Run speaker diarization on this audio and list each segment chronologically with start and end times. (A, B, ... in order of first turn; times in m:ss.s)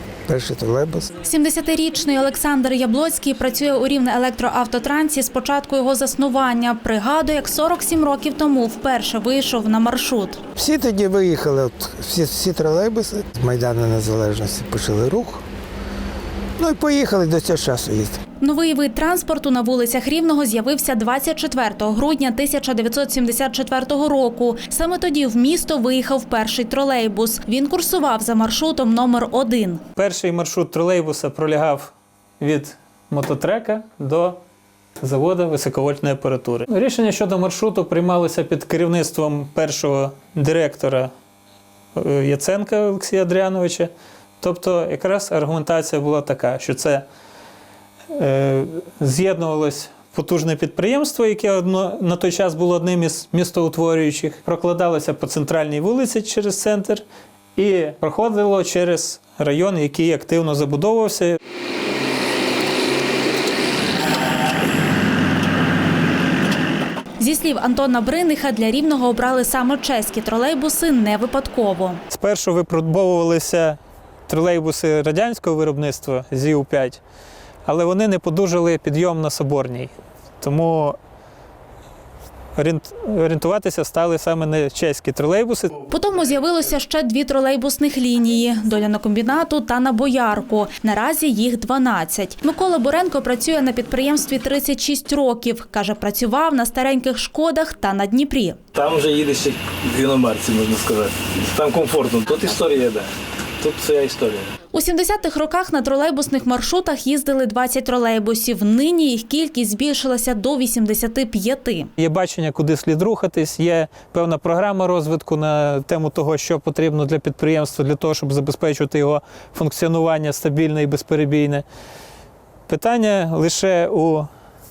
0:00.3-0:01.1 A
0:01.2-0:10.4 B
0:10.6-0:15.4 A
0:16.6-0:18.2 A
0:18.4-0:29.8 B
0:30.0-0:34.4 C
0:35.0-0:41.1 C
0:41.9-0:47.0 C
0:48.1-0:57.0 C
0:57.6-1:01.4 C
1:07.2-1:12.0 B
1:12.1-1:17.0 C
1:17.6-1:21.0 C
1:22.6-1:25.9 C
1:25.9-1:38.6 B
1:38.7-1:44.5 D
1:44.7-1:51.9 B
1:52.0-2:01.6 C
2:02.7-2:04.3 C